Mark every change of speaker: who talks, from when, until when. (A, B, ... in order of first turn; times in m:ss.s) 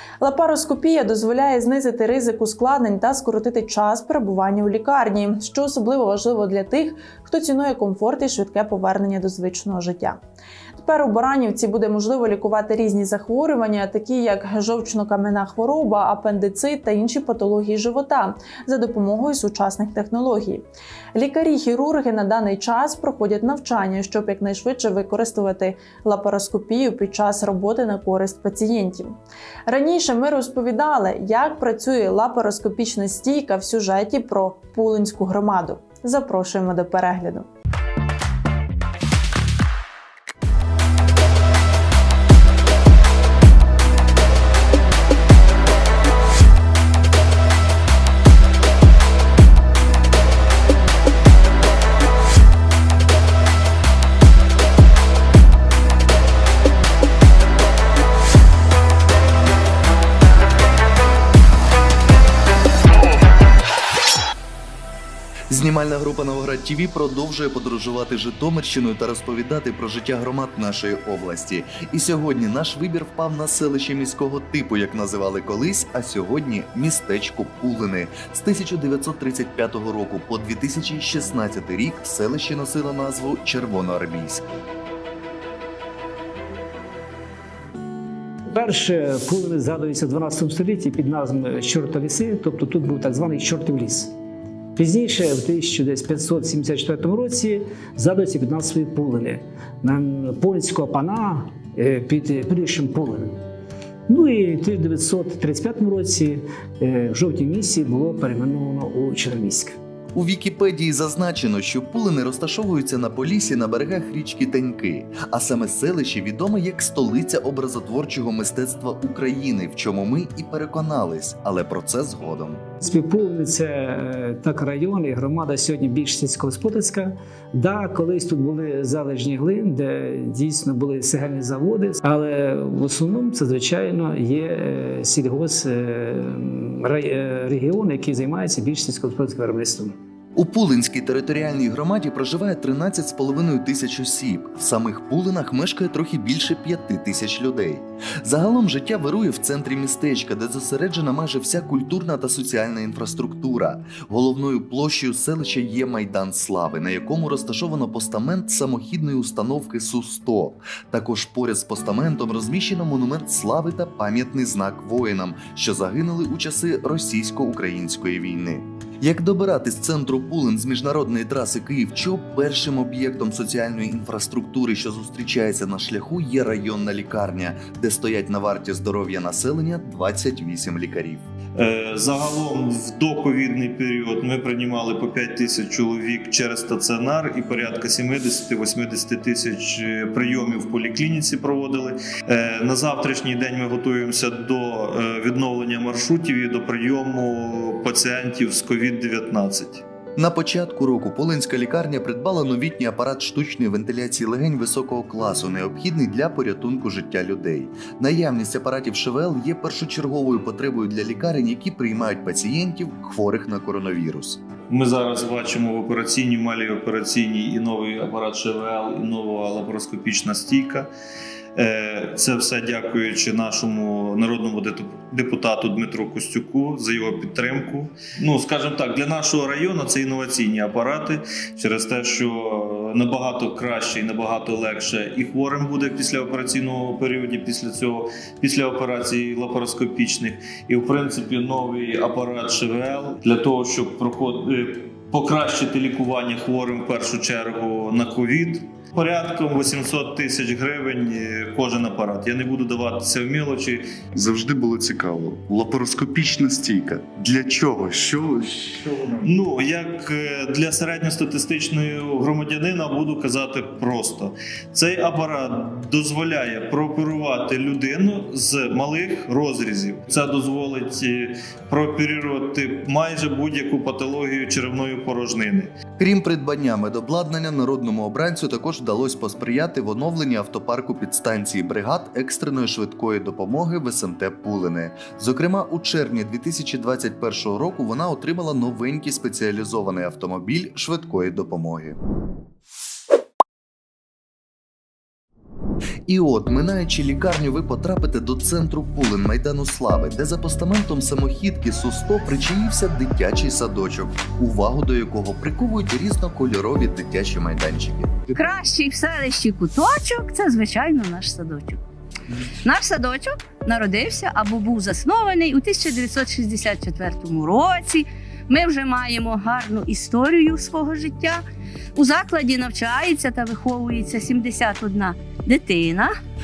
0:00.2-0:10.2 A
0:10.8-0:29.2 A
0:29.7-0:37.5 A
1:05.5-1:24.4 B
1:28.5-1:34.1 C
1:34.8-1:43.4 C
1:44.1-1:49.8 C
1:50.1-2:02.6 B
2:02.8-2:20.0 C
2:20.4-3:01.2 B
3:01.6-3:19.8 D
3:20.2-3:34.4 B
3:34.7-3:40.9 D
3:41.6-4:13.9 D
4:14.2-4:19.1 E
4:19.2-4:35.7 D
4:36.0-4:52.0 B
4:56.1-5:08.3 B
5:08.4-5:11.8 F
5:12.6-5:21.4 F
5:21.9-5:26.1 F